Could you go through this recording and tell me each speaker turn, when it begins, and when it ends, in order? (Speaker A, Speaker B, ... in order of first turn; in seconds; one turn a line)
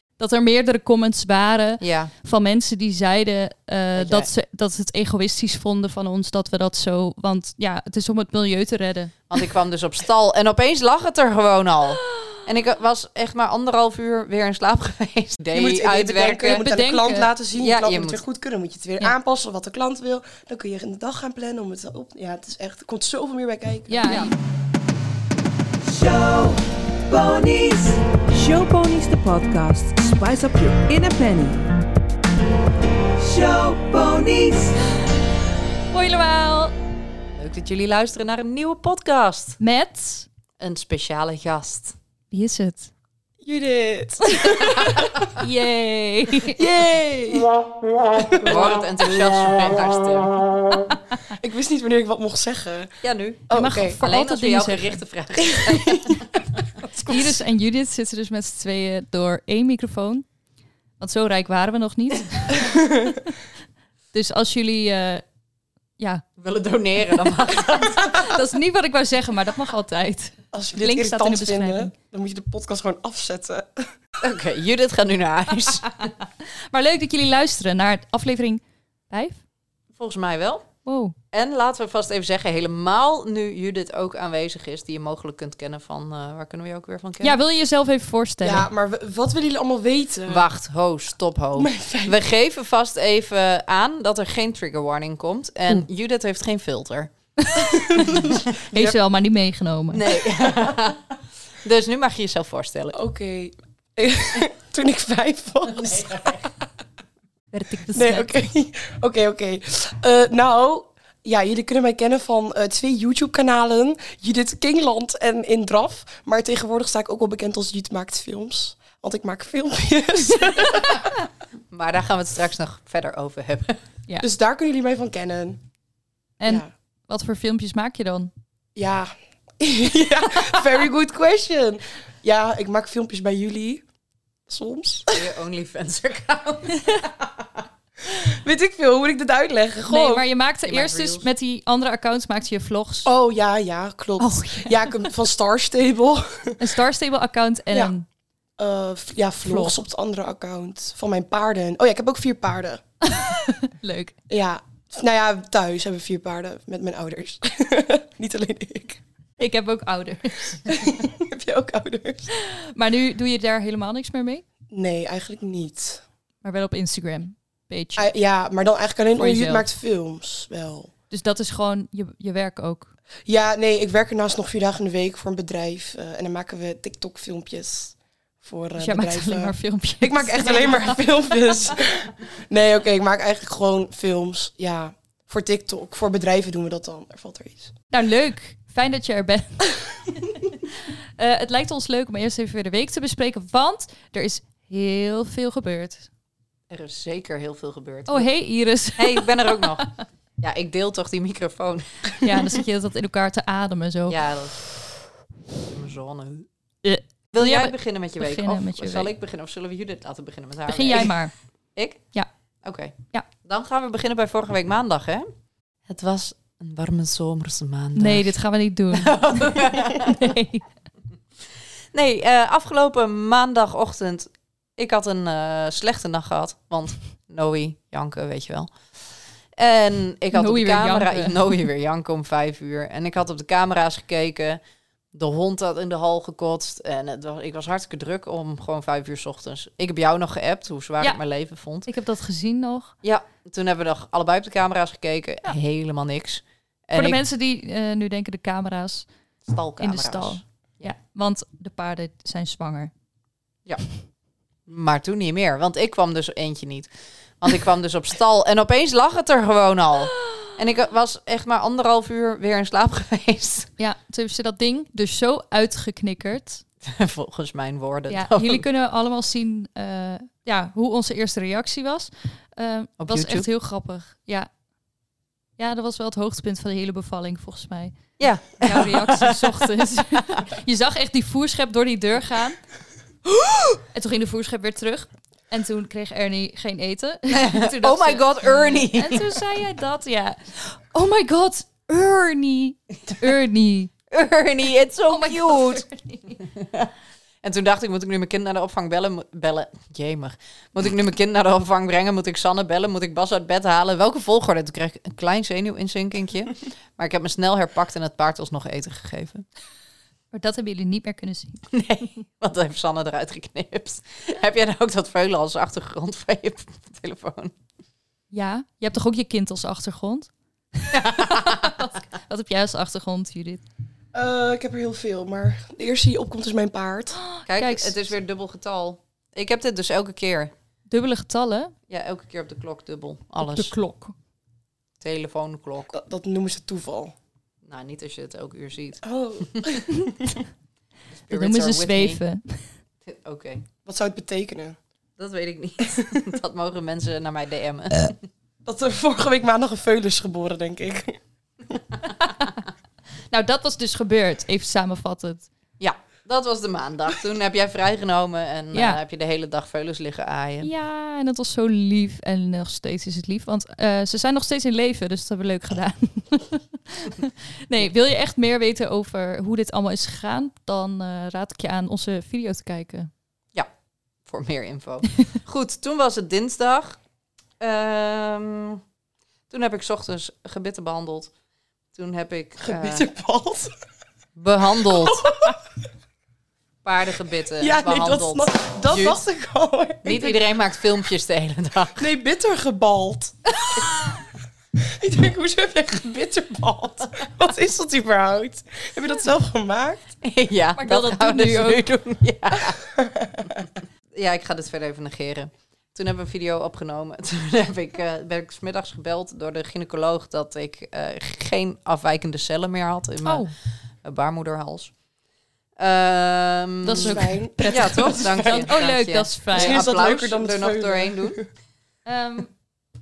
Speaker A: 0.2-9.2
Speaker B: 1.8-2.1
Speaker B: 3.9-4.3
Speaker B: 9.3-16.7
Speaker C: 15.5-24.2
Speaker A: 16.5-17.3
Speaker B: 17.5-18.2
Speaker A: 23.9-24.3
Speaker B: 24.0-24.3
Speaker D: 25.8-31.7
Speaker D: 33.1-34.8
Speaker A: 35.9-36.7
Speaker B: 37.4-39.6
Speaker A: 39.6-40.3
Speaker B: 40.6-42.0
Speaker A: 42.3-42.9
Speaker C: 43.4-45.1
Speaker B: 44.5-45.4
Speaker A: 45.3-46.6
Speaker C: 46.5-47.5
Speaker C: 48.1-48.7
Speaker B: 48.4-50.5
Speaker C: 51.3-52.9
Speaker B: 53.0-57.3
Speaker C: 53.5-54.0
Speaker A: 53.5-55.0
Speaker C: 55.4-56.2
Speaker A: 57.0-60.2
Speaker A: 61.0-63.3
Speaker C: 62.5-63.2
Speaker A: 64.1-65.2
Speaker A: 66.0-66.2
Speaker B: 66.4-68.3
Speaker A: 67.6-71.9
Speaker C: 70.5-73.8
Speaker B: 74.2-76.1
Speaker A: 76.7-79.4
Speaker B: 80.0-80.7
Speaker A: 80.8-81.1
Speaker B: 81.3-87.4
Speaker A: 87.2-88.7
Speaker C: 88.4-90.4
Speaker B: 90.3-97.1
Speaker C: 91.6-92.2
Speaker A: 97.4-100.0
Speaker C: 97.7-99.0
Speaker B: 97.9-98.3
Speaker B: 99.9-103.0
Speaker C: 102.9-106.5
Speaker B: 105.7-106.5
Speaker A: 107.5-108.3
Speaker C: 107.9-121.0
Speaker B: 121.7-123.8
Speaker C: 124.2-125.6
Speaker A: 126.4-128.3
Speaker C: 128.8-133.8
Speaker C: 134.5-135.3
Speaker B: 135.1-137.4
Speaker C: 138.0-140.2
Speaker A: 139.9-143.1
Speaker B: 140.6-141.3
Speaker C: 143.0-146.7
Speaker A: 144.2-144.9
Speaker A: 146.6-148.0
Speaker C: 148.6-152.8
Speaker A: 149.4-149.7
Speaker A: 153.0-154.1
Speaker C: 154.3-159.0
Speaker A: 159.4-160.9
Speaker C: 160.7-162.3
Speaker A: 162.3-164.4
Speaker C: 164.7-166.0
Speaker A: 166.4-168.1
Speaker C: 167.9-170.9
Speaker A: 169.2-169.7
Speaker A: 171.1-172.9
Speaker C: 173.3-187.7
Speaker A: 178.8-181.0
Speaker A: 187.9-196.1
Speaker B: 196.7-198.3
Speaker A: 198.1-199.9
Speaker B: 198.9-202.3
Speaker A: 202.2-204.2
Speaker B: 204.1-204.6
Speaker B: 205.6-206.5
Speaker A: 206.8-209.1
Speaker B: 207.3-211.2
Speaker A: 210.7-211.3
Speaker B: 211.8-212.0
Speaker B: 212.6-215.2
Speaker B: 215.9-218.3
Speaker A: 217.9-220.6
Speaker B: 218.9-220.3
Speaker B: 221.9-228.7
Speaker B: 229.6-234.6
Speaker A: 230.3-231.4
Speaker B: 235.1-241.9
Speaker A: 241.8-242.9
Speaker B: 243.0-247.2
Speaker A: 246.9-249.1
Speaker B: 249.4-250.9
Speaker A: 249.8-252.9
Speaker B: 254.7-256.9
Speaker B: 257.4-263.7
Speaker A: 263.8-266.6
Speaker B: 266.8-268.6
Speaker A: 268.1-274.5
Speaker B: 273.0-273.5
Speaker A: 275.6-282.6
Speaker B: 278.2-280.4
Speaker A: 283.7-293.9
Speaker B: 287.3-289.4
Speaker B: 294.1-295.8
Speaker A: 295.1-296.4
Speaker B: 296.4-296.9
Speaker B: 297.4-309.4
Speaker A: 310.3-311.6
Speaker B: 311.7-317.5
Speaker A: 318.3-323.6
Speaker B: 320.9-321.8
Speaker C: 324.1-327.2
Speaker A: 327.1-328.0
Speaker B: 327.5-330.5
Speaker A: 330.9-331.7
Speaker B: 331.9-333.7
Speaker A: 333.4-334.1
Speaker B: 335.0-335.9
Speaker C: 335.9-337.1
Speaker B: 337.6-339.7
Speaker C: 339.0-340.4
Speaker B: 341.3-342.2
Speaker A: 341.3-342.7
Speaker B: 343.0-343.6
Speaker C: 343.8-344.8
Speaker B: 345.2-348.2
Speaker C: 345.9-346.2
Speaker C: 348.6-351.2
Speaker A: 352.2-352.6
Speaker A: 353.3-355.5
Speaker B: 355.8-360.7
Speaker A: 358.7-359.0
Speaker A: 360.6-373.1
Speaker B: 374.3-377.0
Speaker B: 377.6-378.8
Speaker B: 379.5-381.3
Speaker B: 381.9-383.1
Speaker C: 382.6-383.7
Speaker B: 384.4-385.3
Speaker C: 384.9-385.6
Speaker B: 386.8-389.2
Speaker C: 387.6-390.4
Speaker B: 390.0-392.0
Speaker C: 392.0-393.5
Speaker C: 394.8-400.1
Speaker B: 400.2-402.8
Speaker A: 400.8-401.9
Speaker C: 402.9-403.5
Speaker B: 403.6-413.4
Speaker A: 413.2-413.5
Speaker B: 414.0-414.9
Speaker B: 415.8-421.4
Speaker A: 416.8-419.8
Speaker C: 416.9-418.6
Speaker C: 419.5-421.4
Speaker A: 422.1-422.5